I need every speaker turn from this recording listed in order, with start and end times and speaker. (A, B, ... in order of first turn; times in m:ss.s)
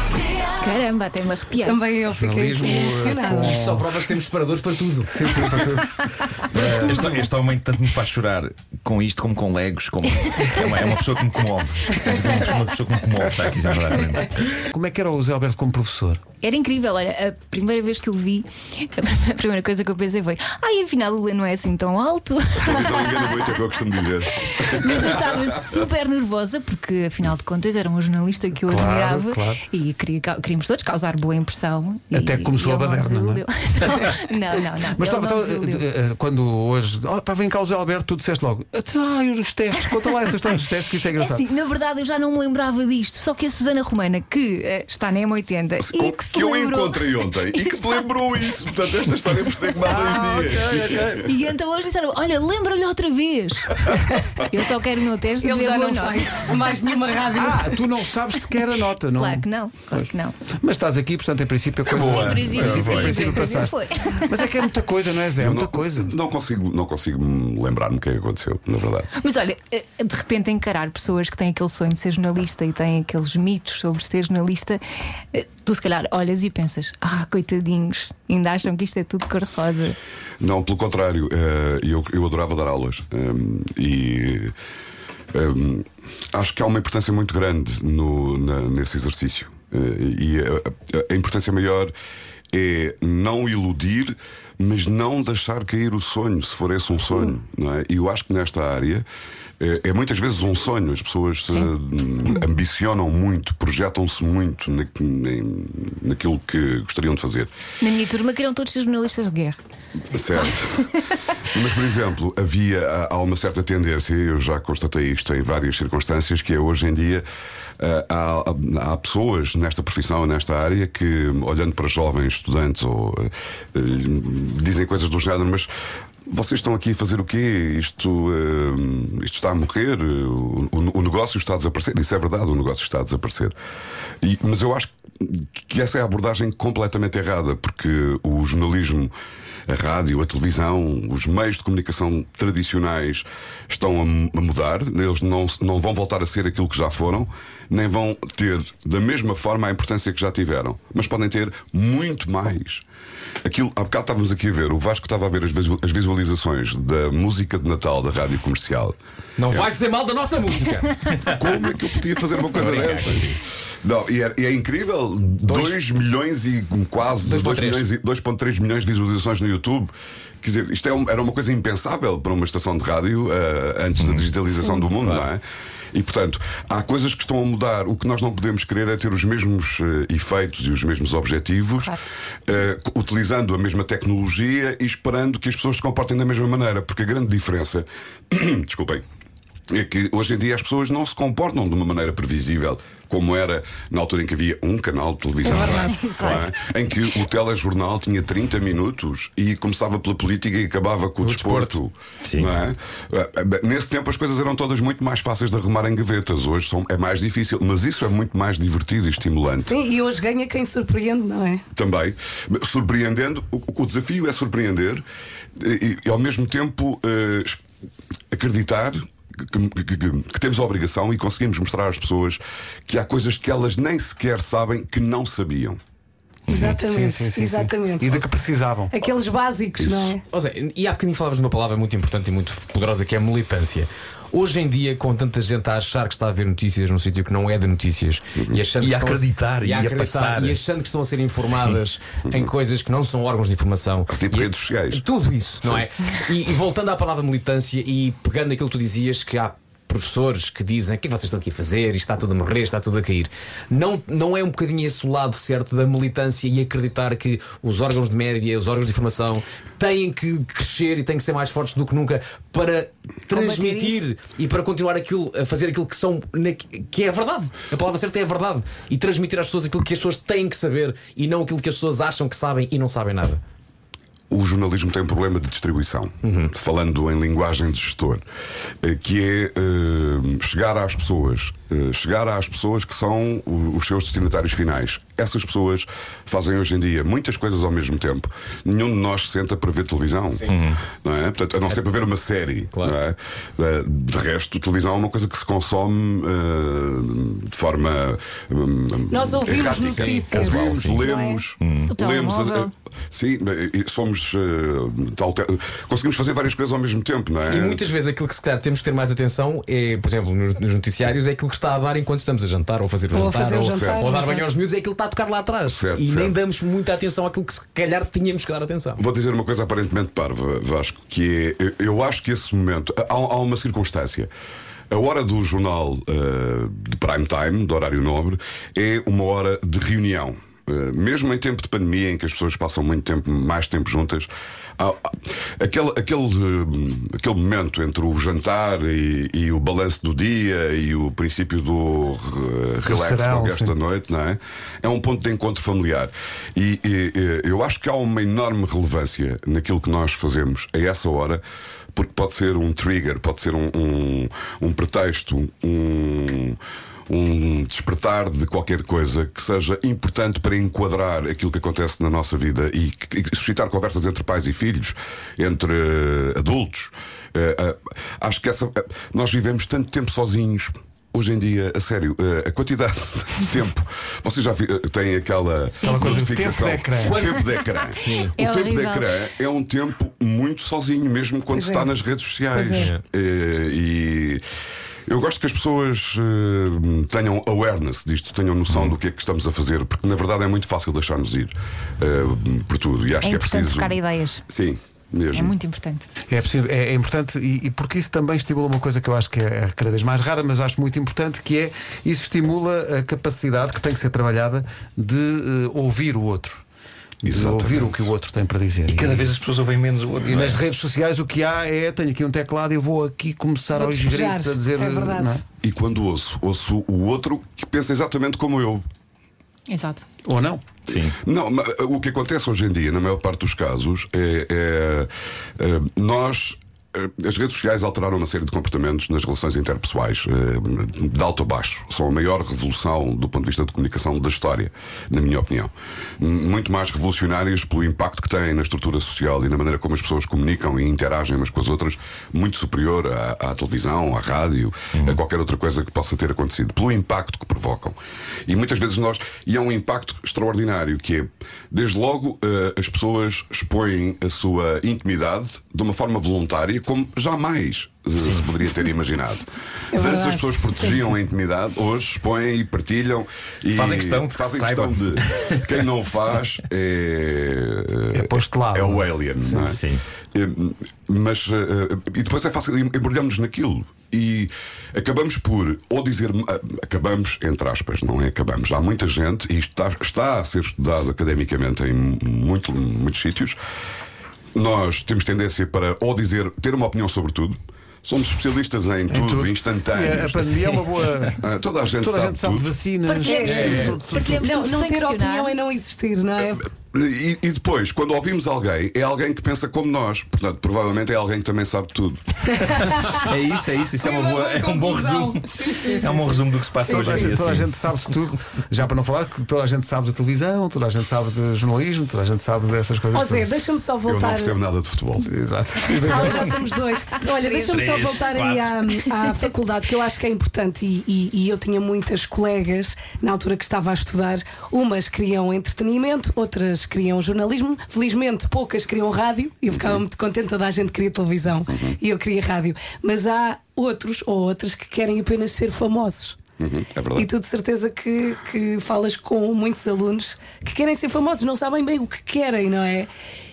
0:00.6-0:01.8 A
0:01.6-0:03.7 B
0:02.1-0:04.0 C
0:03.4-0:05.2 D
0:05.1-0:07.3 C
0:06.5-0:14.5 E
0:14.7-0:16.2 C
0:16.4-0:23.5 A
0:22.6-0:25.7 F
0:24.4-0:35.8 A
0:28.6-0:29.6 C
0:32.1-0:33.4 C
0:34.9-0:41.4 C
0:41.2-0:47.9 A
0:45.8-0:51.3 F
0:50.0-0:51.1 C
0:51.1-0:56.5 A
0:55.4-0:57.8 B
0:57.3-1:06.1 C
0:59.2-1:00.4 A
1:01.9-1:03.1 E
1:02.0-1:04.5 A
1:05.4-1:09.1 F
1:09.2-1:20.0 A
1:20.4-1:24.5 F
1:25.3-1:31.9 F
1:32.5-1:39.0 F
1:39.6-1:47.5 F
1:47.8-1:49.6 A
1:50.1-1:50.9 F
1:51.4-1:57.2 F
1:57.8-2:05.7 F
2:06.3-2:13.5 F
2:14.2-2:19.1 F
2:19.7-2:32.8 F
2:33.4-2:39.0 F
2:39.4-2:41.3 D
2:41.4-2:49.9 F
2:42.5-2:43.3 D
2:45.5-2:45.8 D
2:47.2-2:47.9 D
2:50.4-3:09.0 F
3:09.7-3:29.8 F
3:15.5-3:16.5 A
3:21.2-3:21.8 C
3:22.3-3:22.5 E
3:29.6-3:31.6 B
3:31.7-3:35.0 F
3:35.6-3:37.6 F
3:38.3-3:45.8 F
3:46.5-3:46.8 E
3:46.5-3:48.3 B
3:46.8-3:48.9 C
3:48.9-3:50.2 B
3:49.8-3:50.2 F
3:50.3-4:33.4 D
3:58.8-4:00.6 E
4:04.1-4:05.0 F
4:23.3-4:24.0 A
4:34.3-4:38.2 F
4:36.2-4:36.5 D
4:38.8-5:07.9 F
4:50.5-4:50.8 E
4:59.1-5:01.4 B
4:59.4-5:00.3 D
5:00.5-5:01.1 E
5:01.6-5:01.9 E
5:01.9-5:02.7 A
5:07.5-5:19.0 D
5:13.1-5:14.5 B
5:13.6-5:14.1 F
5:15.7-5:16.4 F
5:19.0-5:24.3 F
5:24.9-5:51.4 F
5:42.8-5:43.8 C
5:51.9-6:24.4 F
6:15.7-6:16.3 A
6:15.8-6:17.2 C
6:17.0-6:18.4 D
6:18.0-6:19.2 A
6:21.5-6:21.9 B
6:22.5-6:22.9 B
6:22.7-6:23.0 D
6:25.1-6:35.6 F
6:33.2-6:34.4 A
6:35.3-6:36.1 A
6:36.3-6:46.6 C
6:47.2-6:49.3 C
6:47.2-6:48.1 F
6:48.9-6:50.6 E
6:50.2-6:55.4 C
6:53.7-6:55.4 B
6:55.6-6:58.8 F
6:59.7-7:00.0 A
7:00.2-7:00.6 C
7:00.9-7:01.2 E
7:01.1-7:49.8 F
7:39.9-7:41.0 B
7:43.7-7:45.7 E
7:48.1-7:49.8 C
7:49.6-7:50.0 E
7:50.3-8:03.6 F
8:04.5-8:10.8 F
8:09.1-8:14.3 C
8:11.3-8:12.7 F
8:13.1-8:16.6 B
8:13.2-8:15.6 A
8:13.4-8:14.0 D
8:16.9-8:22.8 F
8:22.7-8:23.3 B
8:23.2-8:27.7 E
8:24.0-8:27.3 B
8:26.8-8:33.5 C
8:33.1-8:34.6 B
8:34.0-8:35.3 F
8:35.2-8:36.6 C
8:35.9-8:56.4 B
8:37.6-8:38.8 E
8:49.7-8:50.0 F
8:51.7-8:52.0 F
8:56.6-8:57.3 F
8:57.2-9:03.1 B